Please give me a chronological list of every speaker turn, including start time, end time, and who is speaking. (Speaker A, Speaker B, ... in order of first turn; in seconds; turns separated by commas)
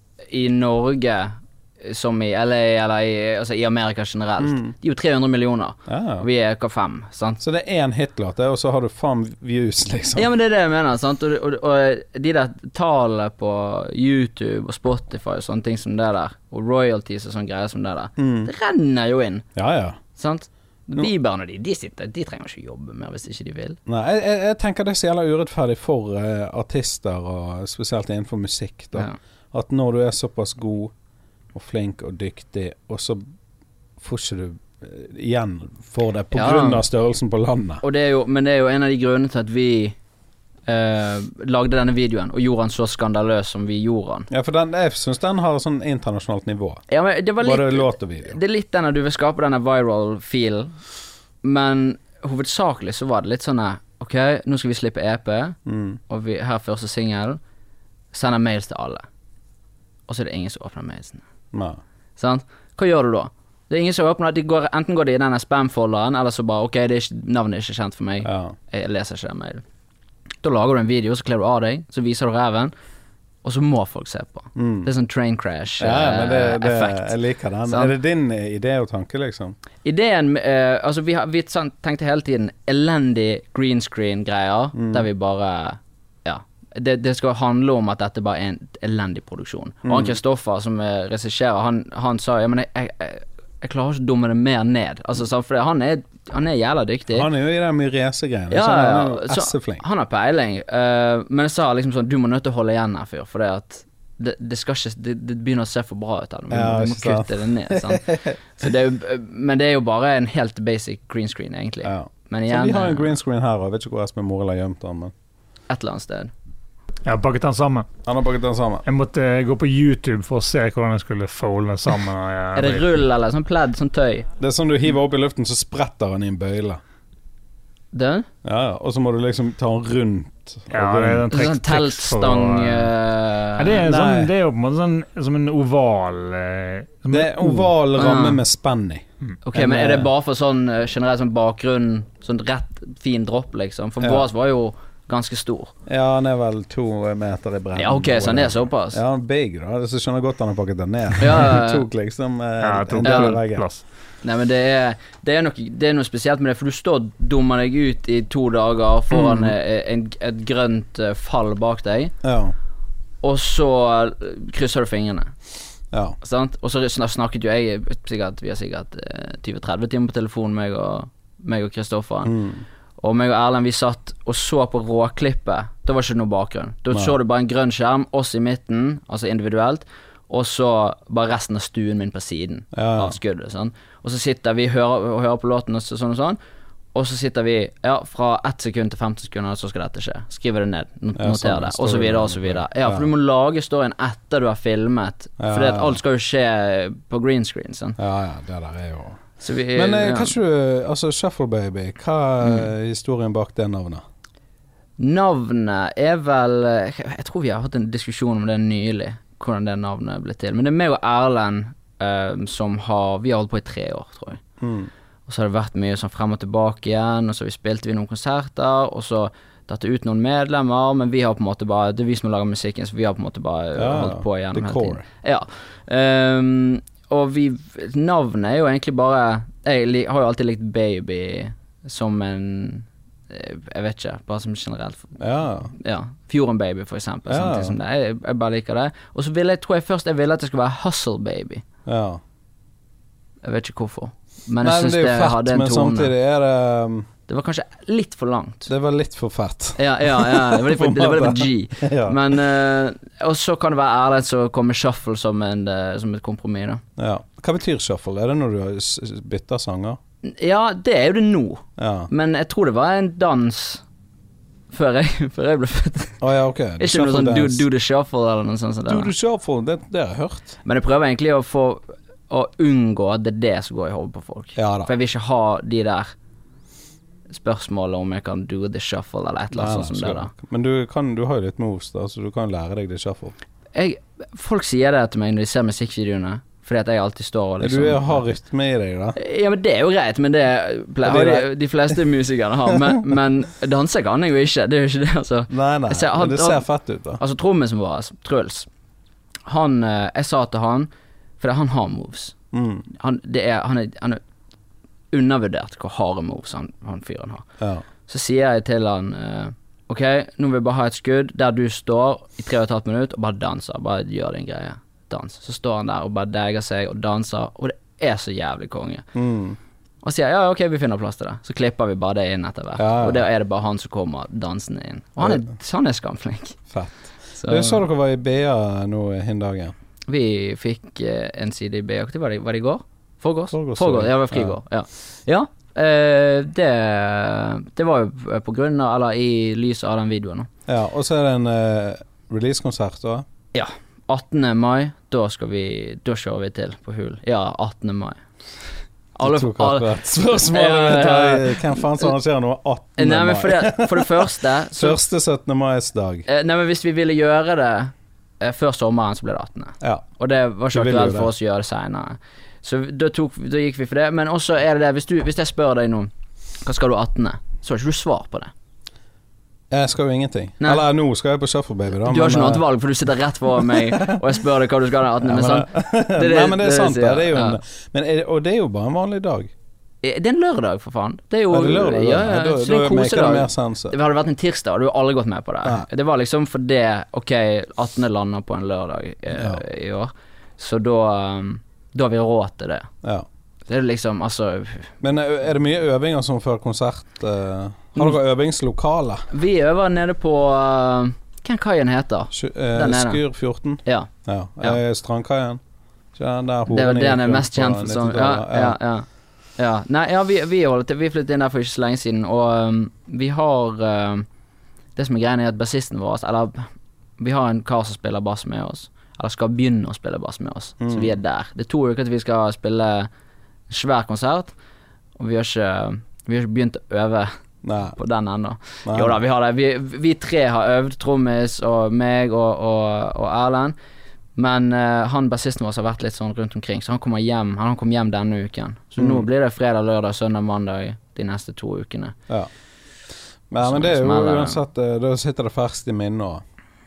Speaker A: 0.3-7.4, Speaker B: 4.4-4.7, Speaker B: 5.9-6.2, Speaker B: 7.4-10.3, Speaker A: 10.1-19.4, Speaker B: 18.2-18.5, Speaker B: 19.6-20.0, Speaker A: 20.1-23.8, Speaker B: 23.9-30.9, Speaker B: 31.5-33.2, Speaker B: 34.0-37.8, Speaker A: 36.3-36.8, Speaker A: 37.8-40.0, Speaker A: 40.7-44.3, Speaker B: 44.3-46.8, Speaker A: 46.9-50.8, Speaker B: 47.4-48.4, Speaker A: 51.4-55.6, Speaker B: 55.6-56.0, Speaker A: 56.1-57.4, Speaker A: 58.1-59.0, Speaker A: 60.1-61.2, Speaker B: 61.5-61.8, Speaker A: 62.2-69.6, Speaker B: 68.2-68.5, Speaker A: 70.4-72.7, Speaker A: 73.4-77.1, Speaker B: 74.5-74.9, Speaker B: 75.8-79.6, Speaker A: 77.7-77.9, Speaker A: 79.8-97.3, Speaker B: 84.7-85.1, Speaker B: 89.8-90.2, Speaker B: 97.1-99.8, Speaker A: 98.5-113.1, Speaker B: 106.5-108.4, Speaker B: 111.8-115.1, Speaker A: 115.7-116.3, Speaker C: 117.0-117.9, Speaker B: 118.0-118.8, Speaker C: 118.8-122.9, Speaker A: 122.5-124.3, Speaker B: 124.4-126.8, Speaker A: 127.9-128.3, Speaker B: 128.4-131.3, Speaker C: 130.7-132.9, Speaker A: 131.3-133.8, Speaker C: 133.6-137.7, Speaker B: 133.8-134.3, Speaker B: 137.1-140.1, Speaker A: 137.9-138.4, Speaker A: 139.4-145.7, Speaker B: 144.0-144.2, Speaker B: 145.9-153.6, Speaker A: 147.7-149.0, Speaker A: 151.2-151.8, Speaker C: 152.6-153.8, Speaker A: 153.0-153.4, Speaker A: 154.2-162.1, Speaker B: 159.1-159.5, Speaker B: 162.2-162.5, Speaker A: 163.2-165.3, Speaker A: 166.2-172.3, Speaker B: 172.2-172.6, Speaker A: 173.0-186.4, Speaker B: 182.7-183.2, Speaker A: 186.9-198.0, Speaker B: 191.1-193.1, Speaker B: 195.4-196.0, Speaker B: 198.0-199.2, Speaker A: 199.4-200.3, Speaker B: 199.7-204.0, Speaker A: 205.0-214.4, Speaker B: 214.6-214.9, Speaker A: 215.2-235.2, Speaker B: 223.8-225.0, Speaker B: 235.2-235.7, Speaker A: 235.7-241.6, Speaker B: 237.3-237.8, Speaker B: 241.8-242.2, Speaker A: 243.4-246.1, Speaker B: 244.6-247.1, Speaker A: 247.3-248.7, Speaker B: 248.7-252.4, Speaker A: 249.8-256.8, Speaker B: 257.0-260.0, Speaker A: 260.2-263.8, Speaker B: 261.8-262.1, Speaker A: 264.7-266.2, Speaker B: 266.2-267.6, Speaker A: 266.8-269.1, Speaker B: 268.9-270.6, Speaker A: 270.6-276.1, Speaker B: 274.6-274.9, Speaker A: 277.3-280.3, Speaker B: 279.5-283.3, Speaker A: 283.7-288.3, Speaker B: 287.6-289.2, Speaker A: 289.1-296.6, Speaker B: 291.0-291.9, Speaker B: 292.7-293.0, Speaker B: 295.5-297.2, Speaker A: 297.2-298.7, Speaker A: 299.5-300.9, Speaker A: 301.4-302.3, Speaker B: 302.5-302.9, Speaker A: 302.9-304.2, Speaker A: 305.1-307.4, Speaker B: 307.6-307.8, Speaker A: 308.1-319.1, Speaker B: 319.1-319.6, Speaker A: 320.0-326.6, Speaker B: 322.8-323.2, Speaker B: 325.2-325.4, Speaker B: 326.7-329.7, Speaker A: 327.4-327.8, Speaker A: 330.1-340.5, Speaker B: 333.5-334.6, Speaker B: 340.7-343.2, Speaker A: 343.5-348.2, Speaker A: 349.1-352.0, Speaker B: 349.2-356.2, Speaker A: 353.0-355.0, Speaker A: 356.3-366.1, Speaker B: 360.7-361.3, Speaker A: 366.6-368.5, Speaker B: 369.7-372.6, Speaker A: 372.0-377.6, Speaker B: 373.6-374.2, Speaker B: 375.2-379.5, Speaker A: 380.0-392.9, Speaker B: 381.5-383.9, Speaker B: 389.3-389.6, Speaker A: 393.7-394.9, Speaker B: 395.0-399.3, Speaker A: 399.3-403.2, Speaker B: 402.3-405.6, Speaker A: 403.8-404.1, Speaker B: 406.1-408.8, Speaker A: 406.7-409.1, Speaker A: 409.6-414.2, Speaker A: 414.9-416.7, Speaker A: 417.2-423.1, Speaker B: 420.8-421.1, Speaker A: 423.7-424.5, Speaker A: 425.2-427.3, Speaker B: 427.6-428.0, Speaker A: 427.9-433.7, Speaker B: 428.9-429.2, Speaker A: 434.4-442.1, Speaker B: 439.0-439.2, Speaker B: 443.5-446.4, Speaker A: 443.6-444.6